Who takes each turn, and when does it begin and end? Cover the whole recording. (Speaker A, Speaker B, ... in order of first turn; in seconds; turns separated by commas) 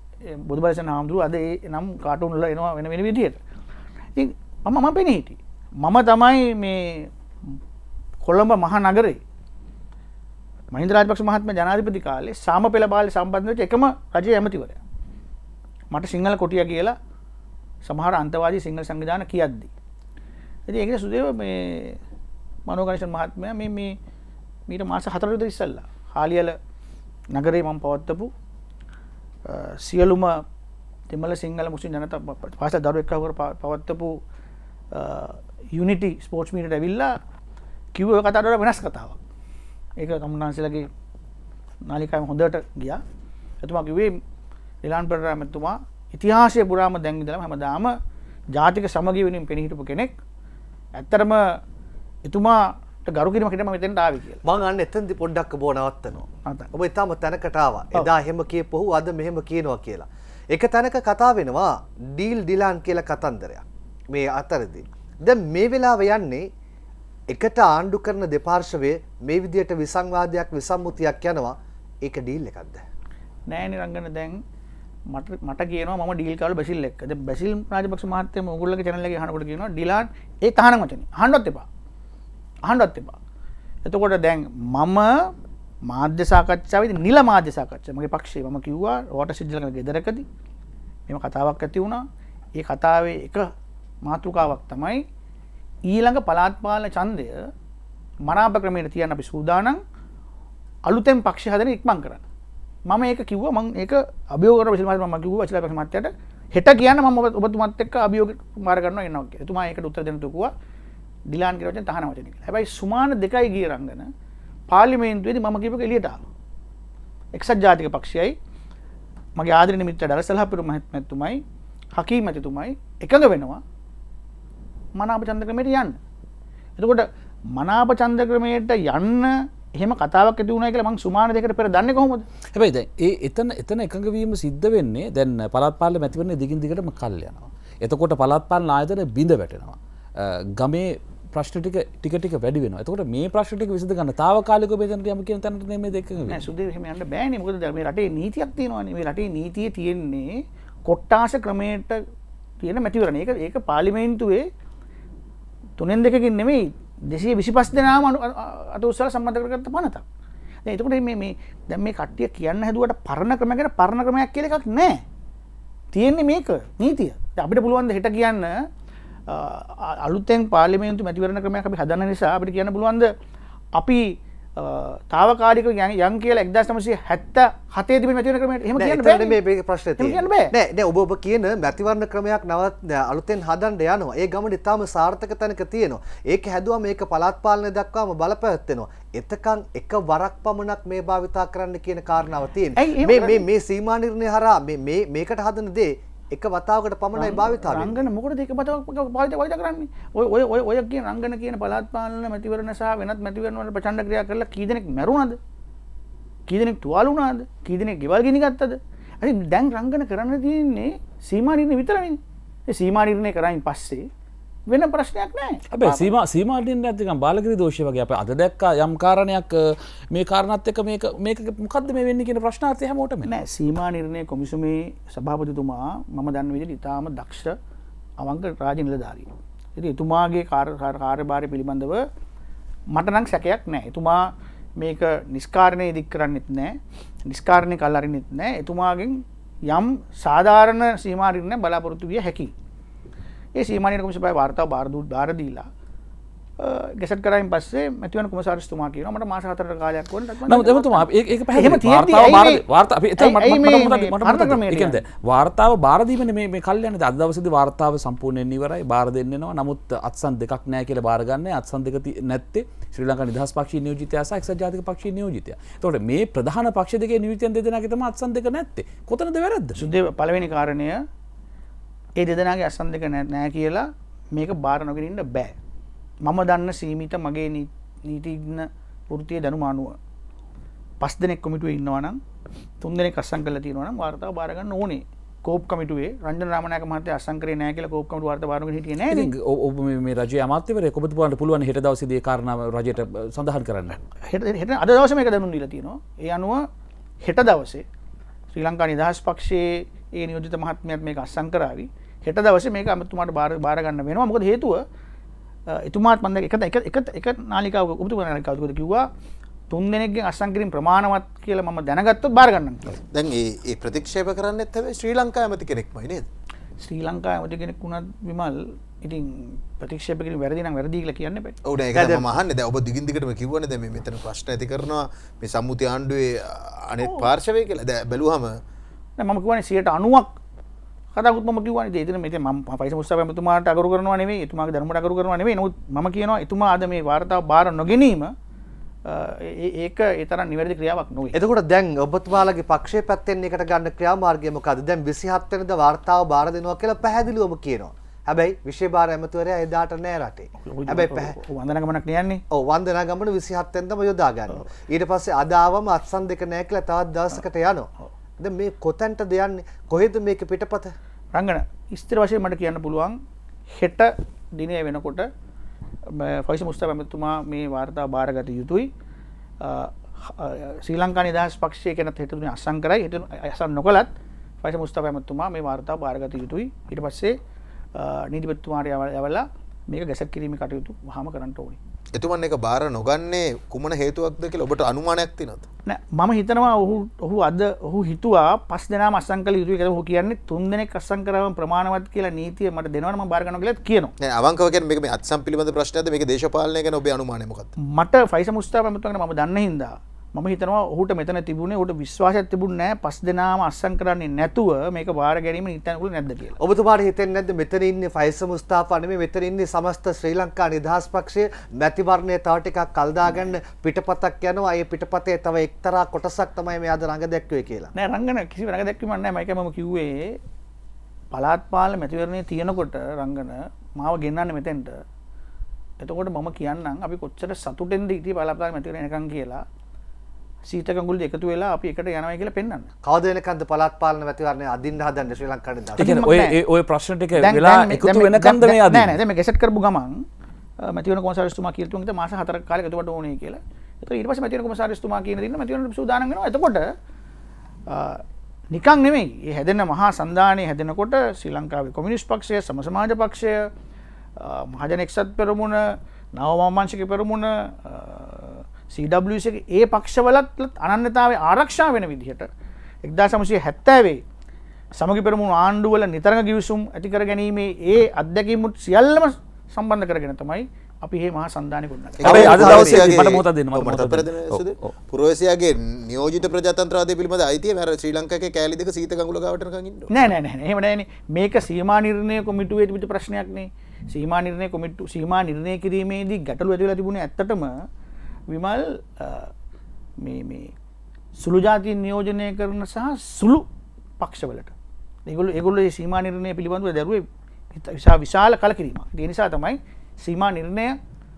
Speaker A: 0.4-3.4, Speaker A: 4.2-7.1, Speaker A: 8.2-9.2, Speaker A: 10.7-14.8, Speaker A: 15.9-16.9, Speaker A: 17.8-19.7, Speaker A: 20.7-22.0, Speaker A: 22.7-24.0, Speaker A: 24.7-26.6, Speaker A: 27.3-28.3, Speaker A: 29.4-30.4, Speaker A: 31.1-34.2, Speaker A: 34.9-37.1, Speaker A: 37.9-39.2, Speaker A: 40.0-40.9, Speaker A: 41.9-43.0, Speaker A: 43.6-44.2, Speaker A: 44.8-47.9, Speaker A: 48.5-50.1, Speaker A: 51.0-51.6, Speaker A: 52.2-54.4, Speaker B: 54.4-66.5, Speaker B: 67.3-72.8, Speaker A: 73.5-74.4, Speaker A: 75.1-81.7, Speaker A: 82.7-83.2, Speaker A: 83.8-85.3, Speaker A: 85.9-90.2, Speaker A: 91.1-92.0, Speaker A: 92.6-93.5, Speaker A: 94.0-95.0, Speaker A: 95.9-97.3, Speaker A: 98.2-99.8, Speaker A: 100.8-102.2, Speaker A: 102.9-110.5, Speaker A: 111.3-114.1, Speaker A: 114.7-116.2, Speaker A: 117.3-118.3, Speaker A: 119.4-121.4, Speaker A: 122.0-123.6, Speaker A: 125.0-126.0, Speaker A: 126.8-132.2, Speaker C: 132.5-146.4, Speaker A: 146.3-152.0, Speaker A: 152.6-154.5, Speaker A: 155.8-160.0, Speaker A: 160.7-165.0, Speaker A: 165.9-168.6, Speaker A: 169.3-173.1, Speaker A: 173.7-179.4, Speaker B: 178.8-198.1, Speaker A: 180.0-180.5, Speaker A: 192.8-193.4, Speaker A: 197.2-205.4, Speaker A: 206.5-214.1, Speaker A: 214.7-216.1, Speaker C: 215.7-223.3, Speaker A: 223.2-227.5, Speaker A: 228.2-232.0, Speaker A: 232.9-242.5, Speaker A: 243.5-245.7, Speaker A: 246.6-252.6, Speaker C: 250.5-269.9, Speaker A: 253.2-255.0, Speaker A: 269.8-271.0, Speaker A: 272.2-275.6, Speaker A: 276.2-279.9, Speaker A: 281.0-282.2, Speaker A: 282.8-289.3, Speaker C: 289.1-294.0, Speaker A: 294.2-296.7, Speaker A: 297.2-297.8, Speaker A: 298.5-304.8, Speaker A: 305.7-309.1, Speaker A: 309.7-312.9, Speaker D: 313.1-316.3, Speaker A: 316.8-321.6, Speaker D: 321.6-328.6, Speaker B: 321.9-322.3, Speaker A: 329.2-330.3, Speaker A: 331.1-338.3, Speaker A: 339.1-341.4, Speaker B: 341.3-351.4, Speaker A: 350.6-352.4, Speaker B: 352.5-360.9, Speaker A: 361.3-363.2, Speaker A: 363.7-365.3, Speaker A: 366.1-368.9, Speaker A: 369.6-377.4, Speaker A: 377.9-381.8, Speaker D: 382.1-385.6, Speaker A: 385.9-394.1, Speaker D: 394.2-397.7, Speaker A: 397.8-406.6, Speaker B: 406.6-417.9, Speaker A: 417.9-420.4, Speaker A: 421.3-425.0, Speaker A: 426.0-429.6, Speaker A: 430.6-432.9, Speaker B: 433.0-436.1, Speaker A: 436.0-436.6, Speaker C: 436.0-439.2, Speaker A: 437.4-440.2, Speaker A: 440.8-446.9, Speaker A: 447.9-448.2, Speaker A: 448.7-453.7, Speaker A: 454.4-455.8, Speaker A: 456.3-462.5, Speaker A: 463.0-464.2, Speaker A: 465.0-472.9, Speaker D: 472.2-480.1, Speaker C: 472.2-474.9, Speaker B: 472.4-472.7, Speaker A: 480.1-487.7, Speaker A: 488.5-489.5, Speaker A: 490.2-490.7, Speaker A: 491.4-493.6, Speaker A: 494.2-494.7, Speaker A: 495.3-501.0